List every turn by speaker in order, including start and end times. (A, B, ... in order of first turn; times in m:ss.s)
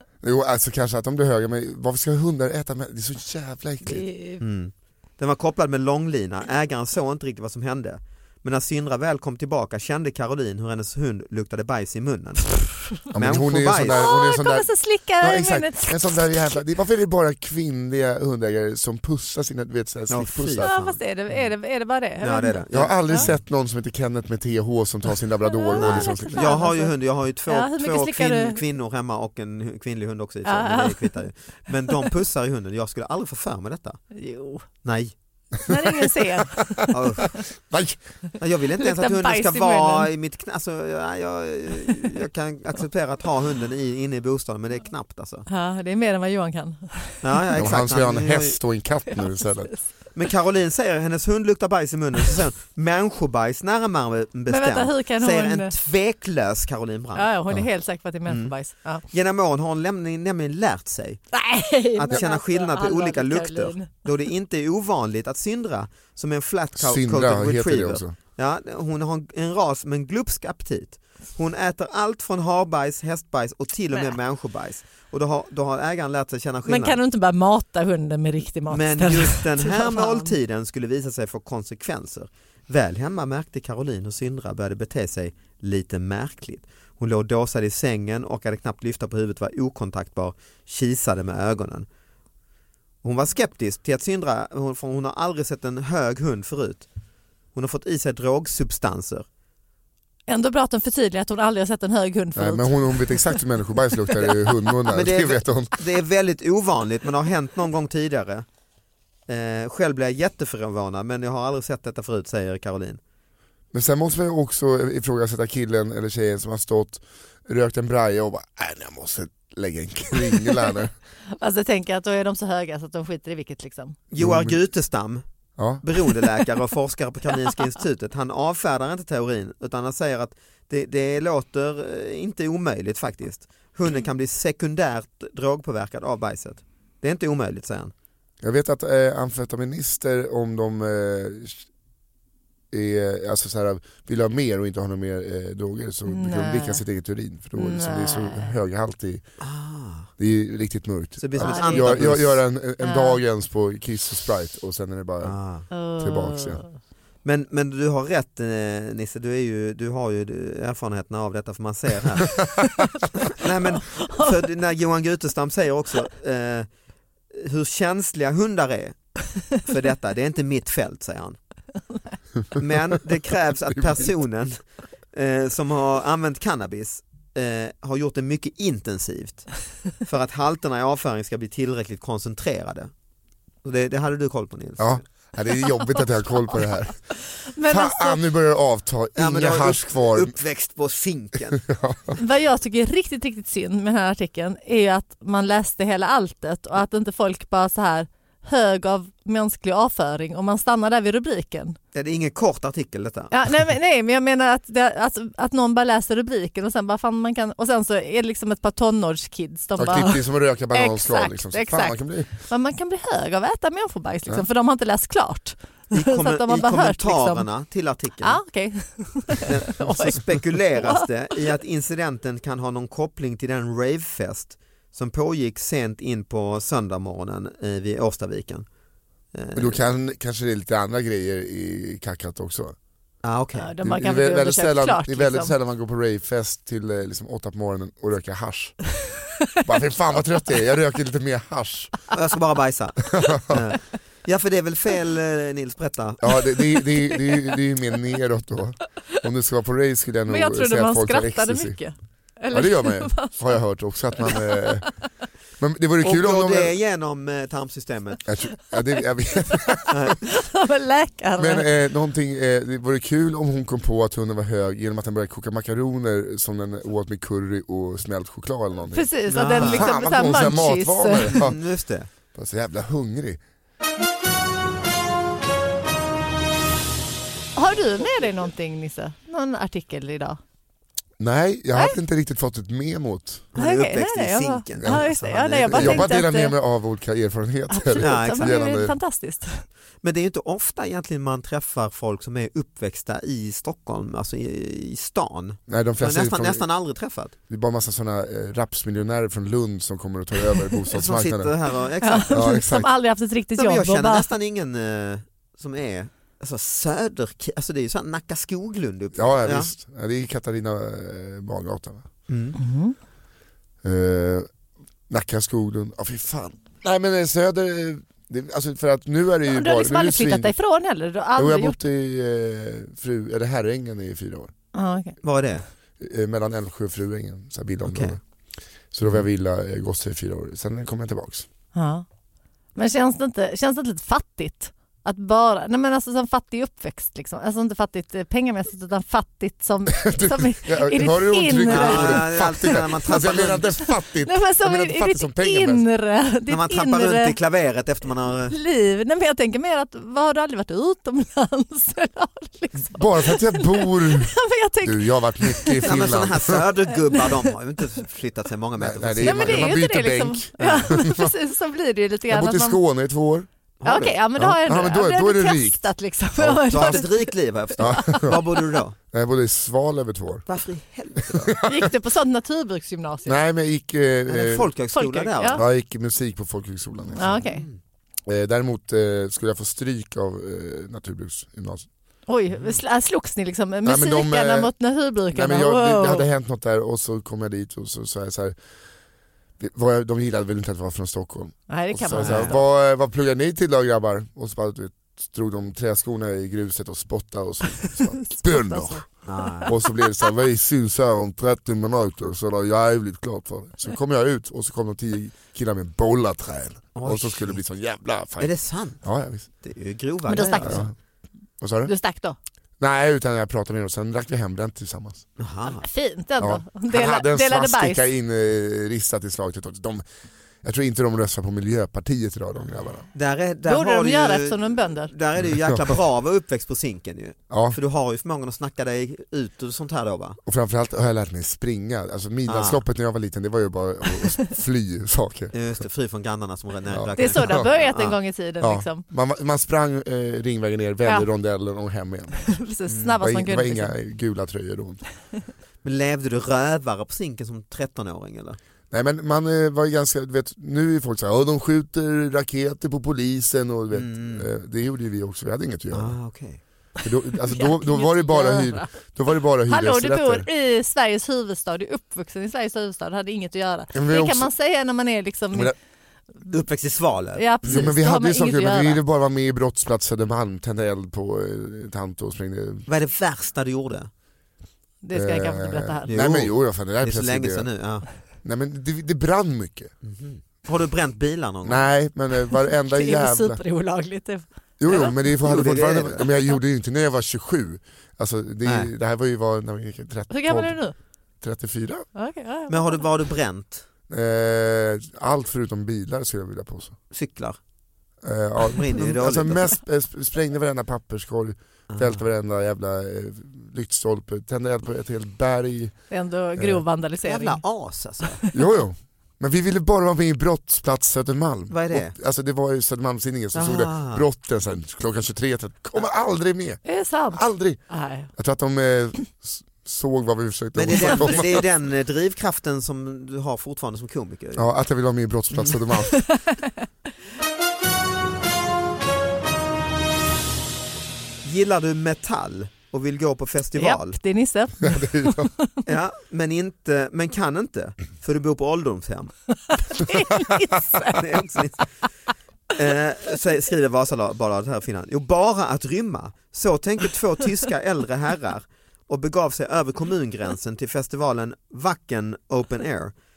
0:00.2-0:04.0 A
0:03.8-0:04.4 B
0:04.4-0:14.1 C
0:13.1-0:20.9 A
0:13.9-0:16.6 B
0:20.1-0:20.7 C
0:20.6-0:23.3 B
0:22.2-0:23.3 C
0:22.7-0:26.6 A
0:25.5-0:26.9 B
0:25.7-0:34.0 C
0:27.5-0:28.6 B
0:30.4-0:31.2 B
0:34.1-0:34.6 B
0:34.8-0:35.1 C
0:35.6-0:37.4 B
0:35.7-0:36.6 A
0:36.9-0:37.3 C
0:37.7-0:38.0 A
0:38.4-0:45.4 C
0:38.8-0:40.1 B
0:45.5-0:47.2 B
0:47.2-0:48.6 C
0:47.6-0:49.7 A
0:49.1-0:49.8 B
0:50.1-0:57.3 C
0:54.5-0:55.7 B
0:57.1-0:59.0 B
0:58.3-0:58.5 C
0:59.1-1:01.2 C
1:01.3-1:04.0 B
1:02.0-1:17.0 C
1:06.8-1:08.2 A
1:16.6-1:20.3 B
1:18.7-1:31.9 C
1:33.0-1:36.8 C
1:37.5-1:39.2 C
1:40.3-1:43.4 B
1:42.4-1:45.7 A
1:44.9-1:48.4 C
1:49.3-1:53.0 C
1:53.7-2:00.9 A
2:01.4-2:04.0 B
2:04.1-2:05.2 C
2:04.2-2:04.6 A
2:05.6-2:05.8 A
2:05.8-2:17.9 C
2:18.4-2:21.6 A
2:22.7-2:29.3 A
2:26.1-2:26.8 B
2:27.6-2:28.5 B
2:29.4-2:30.1 C
2:30.2-2:35.4 A
2:31.2-2:32.4 C
2:31.4-2:32.1 B
2:32.8-2:33.2 B
2:35.2-2:35.7 C
2:35.7-2:36.7 B
2:36.0-2:36.6 A
2:37.2-2:42.5 C
2:43.2-2:46.7 C
2:43.7-2:44.3 B
2:47.3-2:49.0 C
2:49.5-2:51.4 C
2:52.6-2:54.6 C
2:53.7-2:54.0 A
2:55.1-3:02.9 C
3:03.6-3:05.0 C
3:04.8-3:07.0 A
3:07.4-3:08.2 B
3:07.6-3:10.3 A
3:09.2-3:11.6 C
3:11.6-3:12.2 A
3:12.2-3:21.8 B
3:21.9-3:23.3 C
3:23.3-3:37.5 B
3:29.8-3:32.3 A
3:35.9-3:38.4 C
3:38.2-3:40.2 B
3:39.4-3:48.6 C
3:49.3-3:49.8 C
3:49.5-3:52.8 A
3:53.2-3:53.7 C
3:53.6-3:55.5 B
3:53.8-3:58.9 A
3:59.6-4:01.9 A
4:02.1-4:06.3 C
4:03.1-4:03.5 A
4:06.2-4:11.8 A
4:07.0-4:07.4 B
4:10.3-4:13.4 B
4:12.5-4:14.9 A
4:14.2-4:14.9 B
4:15.6-4:16.7 A
4:16.0-4:18.2 C
4:18.3-4:20.1 A
4:19.9-4:20.2 C
4:20.2-4:21.7 B
4:21.4-4:31.6 A
4:28.9-4:31.4 B
4:29.3-4:29.9 C
4:31.3-4:32.1 C
4:32.3-4:33.4 A
4:37.6-4:40.4 B
4:41.2-4:43.4 A
4:43.5-4:46.1 C
4:43.6-4:46.5 B
4:45.7-4:49.0 A
4:47.7-4:49.6 B
4:48.0-4:48.5 C
4:50.0-4:57.3 C
4:55.7-4:56.6 A
4:57.5-5:01.5 A
5:00.9-5:02.4 C
5:02.0-5:04.3 B
5:02.3-5:02.9 A
5:03.6-5:09.7 C
5:09.1-5:12.1 A
5:12.3-5:12.6 C
5:12.6-5:13.0 B
5:13.8-5:14.5 A
5:15.1-5:20.5 A
5:19.5-5:21.8 B
5:21.4-5:24.5 A
5:24.7-5:25.2 B
5:25.2-5:25.6 C
5:26.0-5:28.2 A
5:27.8-5:28.2 C
5:28.9-5:31.4 A
5:31.7-5:32.0 B
5:32.8-5:42.4 B
5:39.9-5:45.8 A
5:41.7-5:43.7 C
5:44.2-5:47.4 B
5:46.5-5:48.6 C
5:48.5-5:56.1 B
5:52.9-5:56.6 A
5:55.8-5:59.8 C
5:56.9-5:57.3 B
5:58.8-6:01.3 A
5:59.2-6:02.8 B
6:00.6-6:01.0 C
6:02.3-6:05.8 A
6:03.8-6:04.2 C
6:03.8-6:08.5 B
6:06.4-6:07.0 A
6:06.7-6:08.9 C
6:07.8-6:08.4 A
6:09.1-6:10.5 A
6:10.5-6:11.6 C
6:11.4-6:11.9 A
6:11.6-6:13.4 B
6:13.2-6:14.7 A
6:14.3-6:15.6 C
6:14.9-6:15.6 B
6:15.5-6:17.4 A
6:17.2-6:17.6 B
6:17.4-6:17.8 C
6:18.2-6:21.9 A
6:22.3-6:26.2 B
6:23.8-6:24.7 A
6:25.3-6:28.6 A
6:29.6-6:49.5 A
6:31.7-6:32.6 B
6:32.2-6:32.6 C
6:38.3-6:39.0 B
6:39.2-6:39.7 C
6:47.0-6:47.6 C
6:48.4-6:49.0 C
6:49.6-6:50.8 C
6:50.3-6:50.8 B
6:50.6-6:50.9 A
6:51.6-6:51.9 A
6:51.8-6:52.4 B
6:52.8-6:55.2 A
6:55.4-6:55.8 C
6:55.7-6:58.0 B
6:56.4-7:00.0 A
7:00.6-7:03.0 A
7:03.1-7:10.4 C
7:03.7-7:05.1 B
7:05.4-7:05.8 A
7:07.5-7:07.8 A
7:10.4-7:15.5 A
7:12.5-7:12.8 C
7:15.5-7:18.2 C
7:16.9-7:17.7 A
7:17.2-7:19.0 B
7:18.6-7:22.6 A
7:22.5-7:23.9 B
7:22.9-7:23.2 C
7:23.2-7:25.0 A
7:25.8-7:28.6 C
7:28.9-7:36.2 A
7:33.9-7:34.4 C
7:35.9-7:36.6 C
7:37.0-7:40.5 A
7:37.5-7:38.9 B
7:39.7-7:45.7 B
7:43.9-7:44.5 A
7:46.5-7:47.9 C
7:47.4-7:49.0 B
7:47.6-7:52.9 A
7:52.9-7:54.1 C
7:55.0-7:56.1 B
7:55.1-7:57.7 A
7:56.1-7:58.0 C
7:58.4-7:59.9 A
8:00.0-8:01.9 C
8:01.6-8:03.6 A
8:02.8-8:05.1 B
8:04.8-8:10.8 A
8:05.2-8:06.3 C
8:08.6-8:08.9 C
8:10.3-8:10.9 B
8:11.4-8:12.1 A
8:12.1-8:13.0 B
8:12.7-8:13.8 C
8:14.1-8:17.0 A
8:17.1-8:17.6 C
8:18.2-8:26.0 A
8:18.8-8:19.7 C
8:21.9-8:22.2 C
8:26.1-8:27.6 B
8:26.6-8:26.8 A
8:27.2-8:28.4 C
8:28.5-8:37.8 A
8:31.7-8:32.1 C
8:33.5-8:34.2 C
8:36.8-8:38.3 B
8:38.3-8:41.6 A
8:40.8-8:44.7 C
8:44.5-8:46.3 A
8:46.1-8:46.7 B
8:51.4-8:54.2 C
8:53.8-8:55.8 B
8:54.8-8:55.5 A
8:55.8-9:00.0 C
8:59.9-9:01.2 B
9:01.1-9:01.9 C
9:02.7-9:13.1 C